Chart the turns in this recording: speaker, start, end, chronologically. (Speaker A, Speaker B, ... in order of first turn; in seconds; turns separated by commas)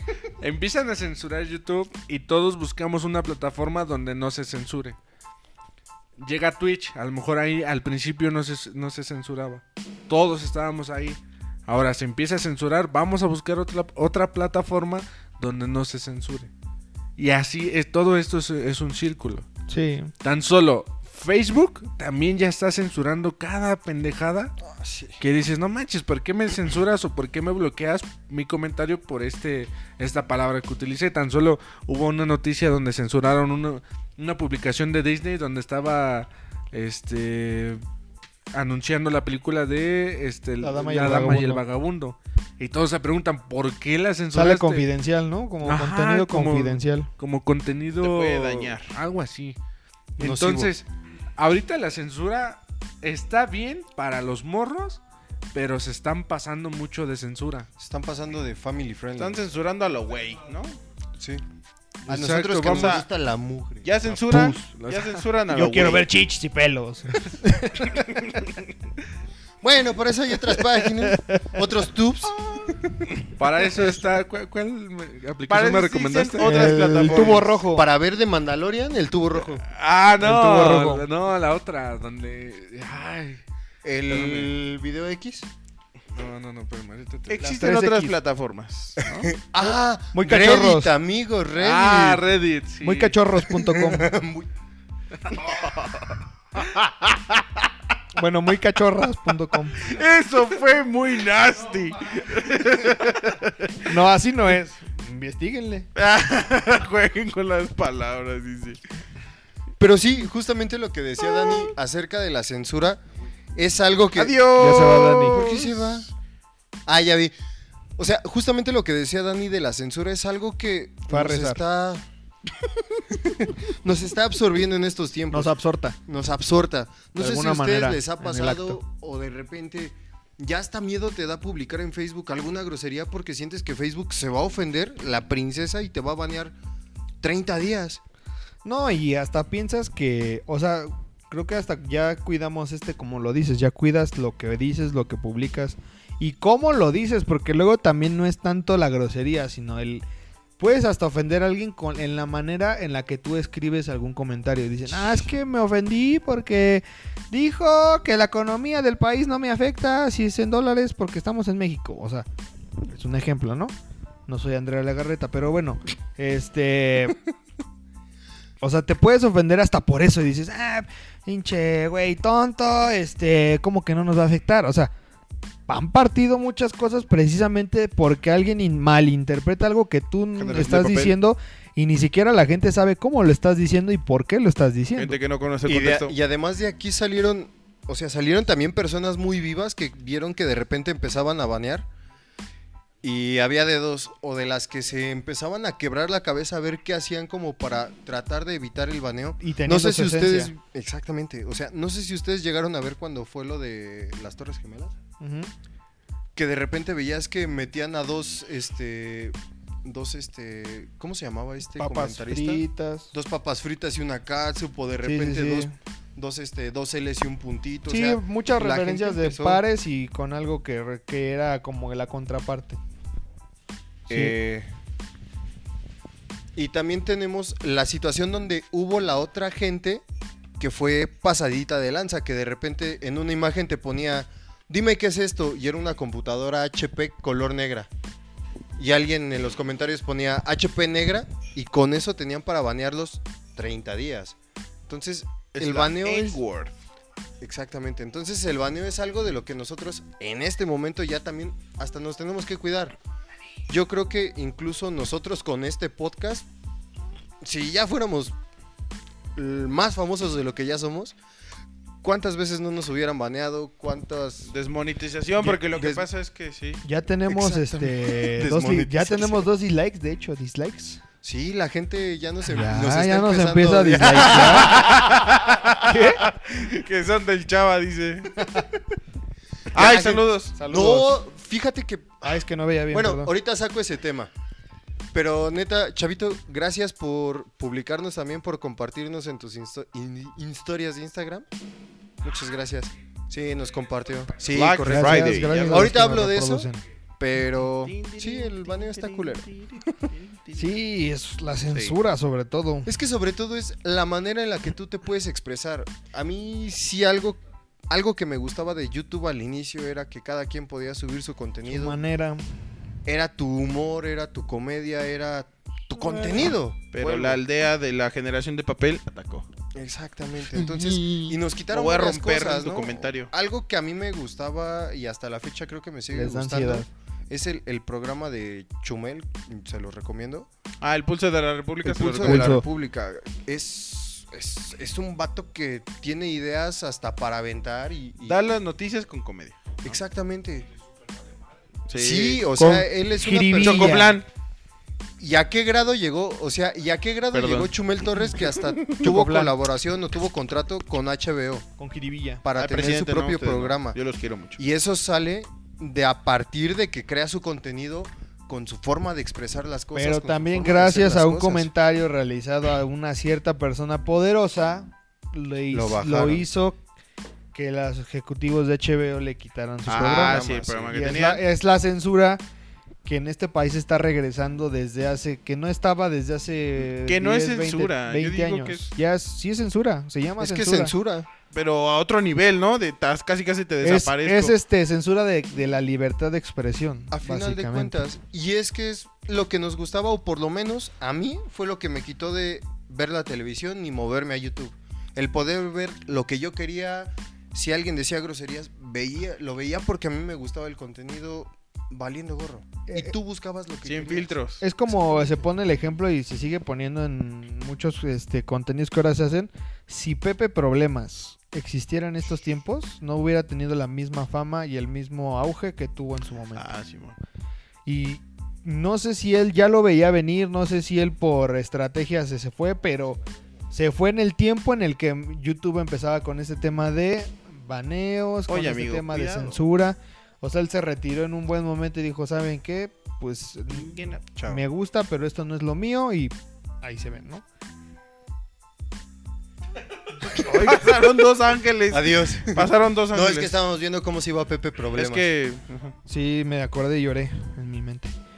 Speaker A: 0.4-5.0, Speaker A: 6.2-16.5, Speaker A: 17.2-19.5, Speaker B: 19.7-20.1, Speaker A: 20.2-24.5, Speaker C: 24.6-25.2, Speaker A: 25.2-37.8, Speaker A: 38.5-44.9, Speaker B: 40.6-41.6, Speaker B: 44.3-47.1, Speaker A: 45.6-49.6, Speaker D: 48.0-49.0, Speaker A: 50.2-55.0, Speaker C: 50.2-50.7, Speaker A: 55.5-57.7, Speaker C: 57.8-59.5, Speaker D: 59.2-60.8, Speaker C: 61.2-61.4, Speaker C: 62.1-64.6, Speaker A: 62.1-63.0, Speaker D: 62.3-63.0, Speaker D: 63.8-66.1, Speaker A: 64.5-65.2, Speaker B: 65.5-68.2, Speaker C: 69.6-72.4, Speaker B: 71.1-71.4, Speaker A: 73.4-76.9, Speaker D: 75.5-77.6, Speaker B: 76.4-77.9, Speaker C: 77.0-79.6, Speaker A: 79.7-83.4, Speaker B: 80.2-81.1, Speaker C: 83.8-85.5, Speaker A: 84.1-84.5, Speaker A: 86.1-87.5, Speaker D: 87.3-89.3, Speaker B: 87.4-88.1, Speaker C: 89.0-92.2, Speaker B: 90.1-90.9, Speaker A: 91.6-93.2, Speaker B: 92.8-94.1, Speaker C: 93.5-94.5, Speaker D: 95.4-97.2, Speaker B: 98.2-99.8, Speaker D: 99.8-103.8, Speaker B: 103.8-105.9, Speaker D: 106.0-108.8, Speaker C: 109.8-113.0, Speaker C: 113.6-114.5, Speaker D: 114.2-116.0, Speaker B: 114.6-115.4, Speaker C: 115.2-116.1, Speaker C: 116.9-117.3, Speaker C: 118.0-122.0, Speaker B: 121.1-121.6, Speaker C: 123.0-136.6, Speaker B: 125.3-126.0, Speaker B: 127.2-128.8, Speaker C: 137.2-138.0, Speaker B: 138.6-150.0, Speaker B: 150.6-162.3, Speaker B: 162.9-163.7, Speaker B: 164.3-167.2, Speaker B: 168.6-174.9, Speaker B: 175.7-185.2, Speaker D: 180.4-181.2, Speaker D: 185.0-186.1, Speaker C: 185.7-191.9, Speaker C: 193.0-204.9, Speaker B: 199.4-200.5, Speaker B: 205.2-205.5, Speaker C: 206.3-219.6, Speaker B: 211.8-213.1, Speaker B: 215.0-215.7, Speaker B: 217.9-222.8, Speaker C: 224.1-224.7, Speaker C: 226.6-230.0, Speaker C: 230.6-237.9, Speaker C: 238.8-244.4, Speaker C: 244.9-246.4, Speaker D: 245.5-246.7, Speaker C: 247.4-253.0, Speaker C: 253.7-256.5, Speaker C: 257.4-258.4, Speaker C: 259.4-261.2, Speaker C: 262.0-264.5, Speaker D: 264.5-266.8, Speaker C: 265.6-266.1, Speaker B: 266.8-271.0, Speaker C: 267.3-269.5, Speaker C: 271.2-275.0, Speaker B: 272.5-274.8, Speaker D: 274.6-278.6, Speaker B: 275.8-276.2, Speaker D: 279.7-280.6, Speaker C: 279.7-284.3, Speaker B: 280.6-281.1, Speaker B: 282.2-283.3, Speaker C: 285.1-291.5, Speaker C: 292.2-300.1, Speaker D: 294.4-296.0, Speaker B: 294.6-296.8, Speaker D: 297.8-300.7, Speaker B: 300.6-302.9, Speaker C: 302.9-312.0, Speaker B: 311.6-312.5, Speaker C: 313.1-317.4, Speaker D: 316.8-319.5, Speaker C: 319.7-330.5, Speaker D: 321.7-323.3, Speaker B: 326.1-326.9, Speaker D: 330.8-332.6, Speaker C: 331.9-338.5, Speaker B: 332.1-332.6, Speaker D: 338.3-339.8, Speaker C: 339.8-340.7, Speaker D: 341.9-342.5, Speaker C: 341.9-344.2, Speaker B: 342.6-344.2, Speaker D: 343.6-344.3, Speaker C: 345.2-351.7, Speaker D: 347.3-347.7, Speaker D: 348.4-349.0, Speaker B: 349.0-349.6, Speaker B: 351.8-352.4, Speaker C: 352.4-354.0, Speaker D: 352.6-354.6, Speaker C: 354.6-361.7, Speaker B: 359.9-366.8, Speaker C: 365.7-366.5, Speaker B: 367.5-372.4, Speaker D: 369.9-371.4, Speaker C: 369.9-371.0, Speaker B: 373.1-380.9, Speaker D: 376.9-378.9, Speaker C: 380.4-381.3, Speaker D: 381.5-384.5, Speaker B: 383.8-388.0, Speaker C: 387.1-404.4, Speaker B: 402.9-403.1, Speaker D: 403.9-404.6, Speaker B: 404.6-416.7, Speaker C: 404.9-405.5, Speaker D: 416.6-417.2, Speaker B: 417.9-423.2, Speaker B: 423.7-437.4, Speaker D: 428.5-429.6, Speaker D: 433.7-434.3, Speaker D: 440.4-443.5, Speaker C: 441.9-445.3, Speaker D: 444.9-445.9, Speaker B: 446.1-448.1